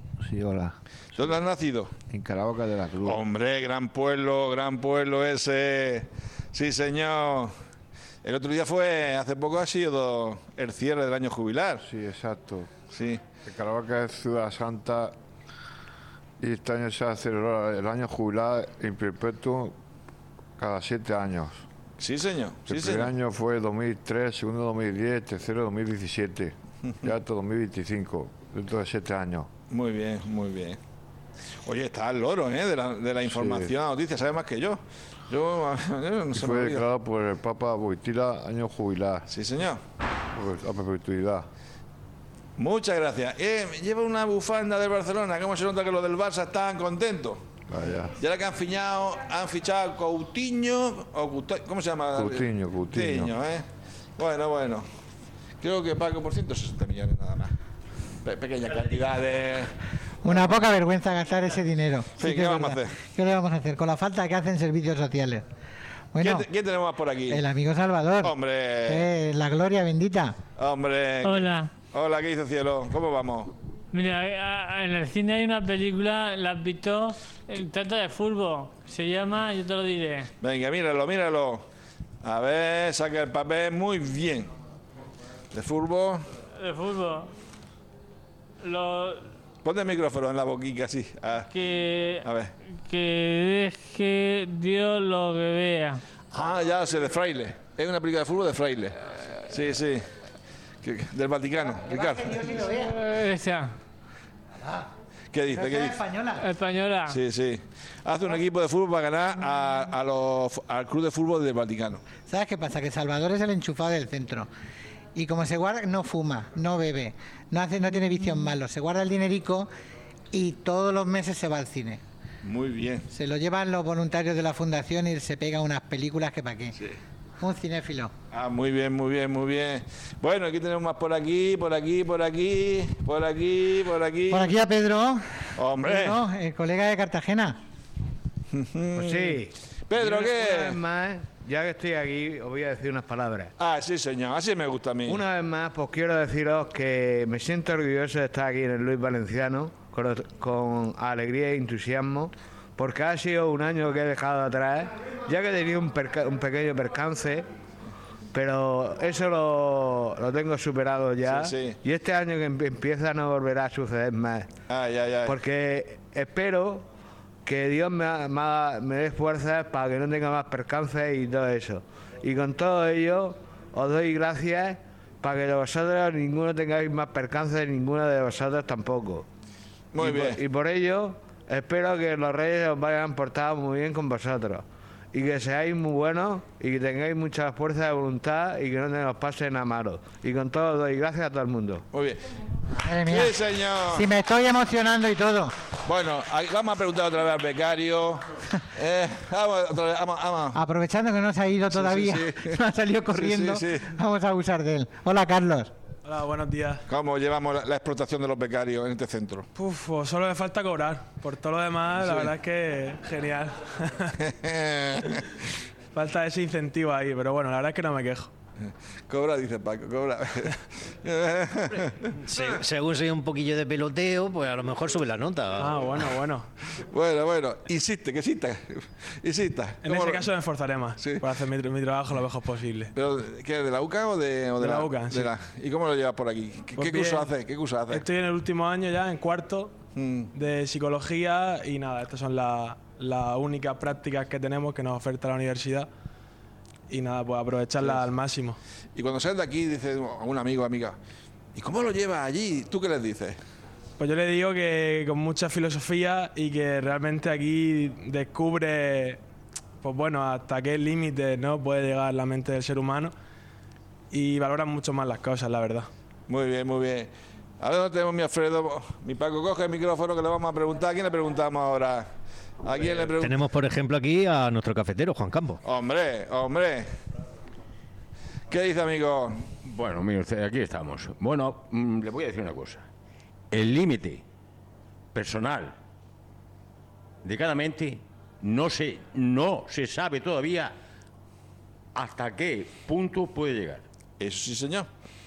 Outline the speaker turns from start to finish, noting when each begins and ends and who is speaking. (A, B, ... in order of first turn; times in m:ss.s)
0:00.2-0:01.3 A
0:01.1-0:01.9 B
0:02.1-0:03.2 A
0:03.0-0:07.5 B
0:08.2-0:11.8 B
0:11.8-0:12.7 C
0:12.9-0:13.2 B
0:13.4-0:15.1 C
0:16.4-0:19.7 C
0:20.6-0:21.6 C
0:22.0-0:23.1 B
0:22.7-0:29.5 C
0:29.7-0:30.8 B
0:31.6-0:36.8 B
0:33.2-0:33.7 C
0:36.3-0:39.3 C
0:39.3-0:39.8 B
0:40.3-0:41.5 C
0:42.6-0:47.4 B
0:47.7-0:48.2 C
0:48.2-0:53.6 B
0:52.1-0:53.3 C
0:54.2-0:54.8 B
0:55.6-0:57.5 B
0:58.2-0:59.7 B
1:00.2-1:05.4 D
1:02.2-1:02.9 B
1:06.1-1:06.5 D
1:06.2-1:07.4 B
1:07.3-1:08.3 D
1:08.2-1:09.1 B
1:08.8-1:10.4 D
1:10.6-1:13.5 B
1:11.2-1:11.7 E
1:13.9-1:20.3 E
1:20.4-1:21.6 B
1:22.2-1:24.5 B
1:25.5-1:26.2 B
1:26.6-1:27.3 E
1:28.6-1:29.3 E
1:29.6-1:31.5 B
1:31.5-1:32.2 E
1:32.2-1:32.5 B
1:32.8-1:36.0 E
1:36.3-1:40.1 B
1:40.8-1:42.4 B
1:41.8-1:42.9 D
1:42.8-1:43.7 E
1:45.3-1:46.0 B
1:45.5-1:46.4 D
1:46.4-1:47.2 E
1:47.1-1:52.0 B
1:52.3-1:54.5 D
1:55.1-1:59.7 D
2:00.3-2:02.0 D
2:02.4-2:03.1 B
2:03.1-2:06.7 D
2:07.4-2:08.1 D
2:08.3-2:14.5 B
2:14.3-2:15.2 D
2:15.6-2:16.2 B
2:15.8-2:17.6 D
2:18.5-2:20.8 B
2:18.9-2:23.5 A
2:23.6-2:25.2 B
2:25.0-2:37.4 A
2:38.3-2:44.5 A
2:41.2-2:41.8 B
2:44.7-2:45.4 B
2:45.2-2:46.8 A
2:47.4-2:59.2 A
2:59.9-3:00.4 B
3:00.0-3:11.8 A
3:11.9-3:12.2 B
3:12.8-3:13.4 D
3:13.0-3:14.1 B
3:13.9-3:15.5 D
3:15.8-3:18.2 B
3:18.7-3:20.6 B
3:20.5-3:25.7 D
3:21.7-3:22.6 B
3:23.1-3:23.9 B
3:26.0-3:26.8 F
3:26.9-3:29.4 B
3:29.6-3:34.0 F
3:31.9-3:32.3 B
3:34.2-3:35.3 B
3:35.9-3:38.3 F
3:38.6-3:41.9 B
3:42.3-3:46.1 G
3:45.6-3:46.4 F
3:46.7-3:50.3 B
3:49.8-3:52.8 F
3:51.0-3:51.3 B
3:52.9-3:58.1 B
3:54.6-3:55.3 F
3:56.8-3:57.3 F
3:57.9-3:59.7 F
3:59.9-4:00.3 B
4:00.3-4:05.9 F
4:06.9-4:08.6 F
4:07.8-4:08.1 B
4:08.9-4:11.0 B
4:11.5-4:13.4 B
4:14.0-4:19.2 F
4:19.8-4:23.1 F
4:24.1-4:25.8 F
4:26.3-4:32.1 B
4:32.6-4:33.4 B
4:33.0-4:35.6 G
4:35.6-4:36.9 B
4:38.5-4:39.5 B
4:39.6-4:42.8 H
4:43.5-4:44.2 H
4:45.1-4:45.8 H
4:47.2-4:50.8 H
4:51.9-4:53.8 H
4:54.2-4:54.9 B